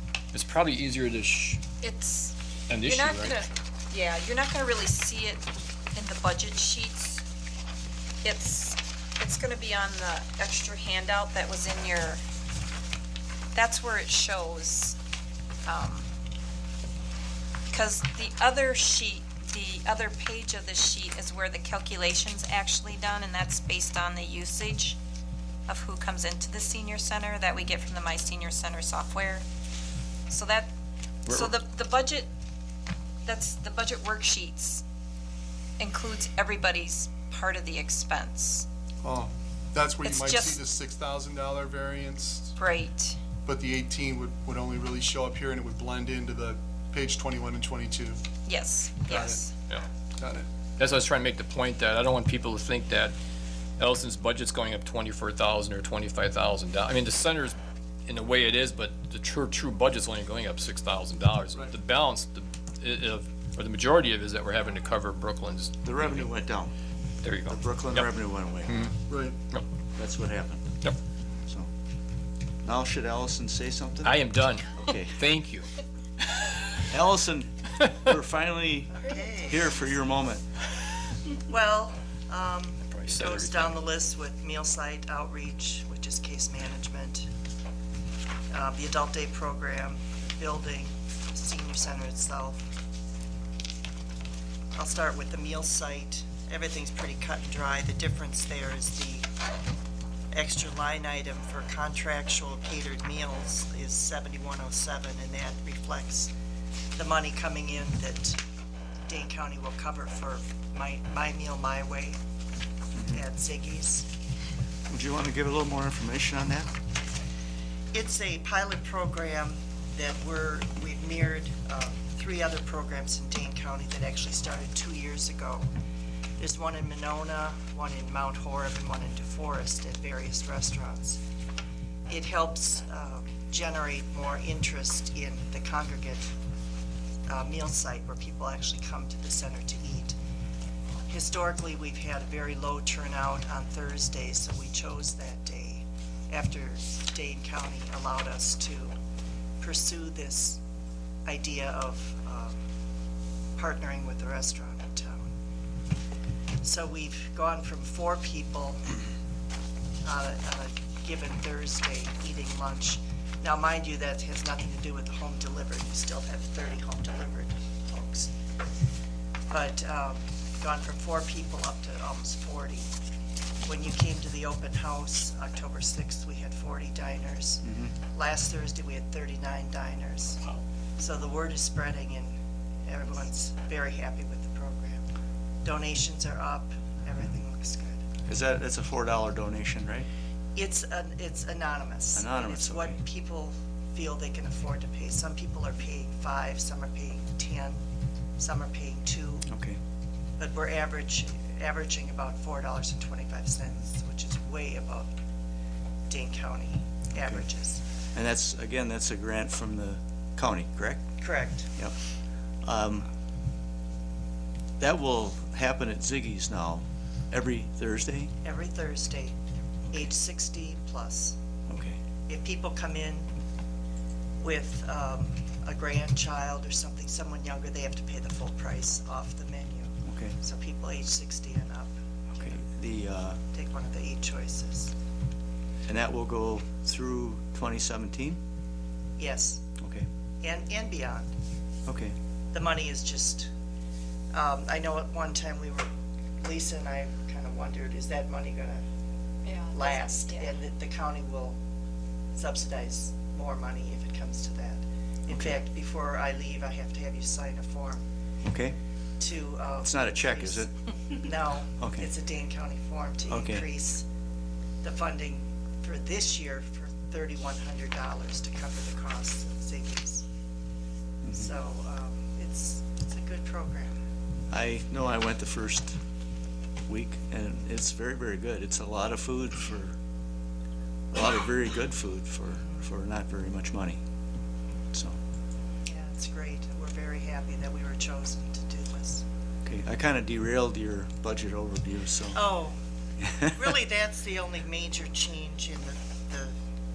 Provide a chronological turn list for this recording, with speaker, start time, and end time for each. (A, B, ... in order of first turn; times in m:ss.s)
0:00.3-0:01.6 A
0:01.8-0:07.2 B
0:02.7-0:03.4 A
0:08.2-0:12.2 B
0:13.5-0:15.0 B
0:15.6-0:16.1 B
0:17.7-0:25.0 B
0:25.7-0:29.4 B
0:30.3-0:30.7 B
0:31.3-0:32.3 B
0:33.2-0:34.8 B
0:35.8-0:38.7 B
0:39.0-0:42.5 C
0:40.0-0:40.6 B
0:42.6-0:43.2 B
0:43.4-0:48.2 C
0:48.4-0:49.5 B
0:49.0-0:49.4 C
0:50.2-0:50.5 C
0:50.8-0:53.1 A
0:53.8-0:57.6 A
0:58.1-1:06.3 A
1:05.8-1:06.8 D
1:07.2-1:08.1 A
1:07.5-1:08.9 D
1:08.7-1:09.0 A
1:09.1-1:09.4 C
1:10.0-1:10.6 D
1:12.6-1:14.2 D
1:14.0-1:15.7 A
1:14.7-1:15.3 D
1:16.8-1:20.4 D
1:19.0-1:19.8 E
1:21.4-1:27.3 E
1:22.9-1:23.8 A
1:28.5-1:32.7 E
1:34.8-1:39.3 E
1:40.3-1:46.3 E
1:47.0-1:48.4 E
1:49.1-1:52.2 E
1:53.0-1:53.2 D
1:53.1-1:54.1 E
1:54.9-1:56.7 D
1:57.9-2:05.7 E
2:06.4-2:11.2 E
2:12.1-2:16.3 E
2:17.3-2:20.2 E
2:21.1-2:29.0 E
2:29.6-2:30.6 E
2:31.2-2:32.6 E
2:33.6-2:35.3 E
2:36.6-2:38.9 E
2:40.0-2:48.3 E
2:49.5-2:52.9 E
2:53.6-3:00.4 E
2:57.6-2:57.9 D
3:01.0-3:05.0 E
3:05.6-3:08.0 E
3:08.2-3:10.1 D
3:10.5-3:17.8 E
3:12.1-3:13.0 D
3:18.4-3:19.5 E
3:19.5-3:19.8 D
3:20.4-3:25.1 E
3:26.1-3:27.8 E
3:27.2-3:27.4 D
3:28.1-3:31.9 D
3:31.2-3:31.7 E
3:32.6-3:33.1 D
3:34.8-3:38.3 D
3:38.4-3:39.4 E
3:39.9-3:41.4 E
3:41.7-3:42.0 D
3:42.3-3:43.3 E
3:44.4-3:52.6 E
3:50.0-3:50.4 D
3:52.3-3:53.4 D
3:53.5-3:54.9 E
3:55.8-3:58.4 D
3:59.2-3:59.6 E
3:59.8-4:00.1 D
4:00.4-4:01.3 E
4:01.9-4:02.2 D
4:02.5-4:03.5 E
4:04.3-4:08.8 E
4:09.4-4:10.5 B
4:09.7-4:11.6 E
4:12.3-4:18.0 E
4:15.3-4:15.6 D
4:18.4-4:18.8 D
4:19.2-4:20.7 E
4:19.8-4:20.7 D
4:21.2-4:24.1 E
4:21.8-4:22.1 D
4:23.3-4:23.6 D
4:24.8-4:30.2 E
4:31.2-4:31.5 D
4:31.3-4:33.9 E
4:34.5-4:36.0 D
4:36.9-4:40.0 D
4:41.1-4:44.0 D
4:44.9-4:45.2 D
4:45.9-4:49.2 E
4:49.6-4:52.4 D
4:52.3-4:52.8 E
4:53.4-4:56.6 E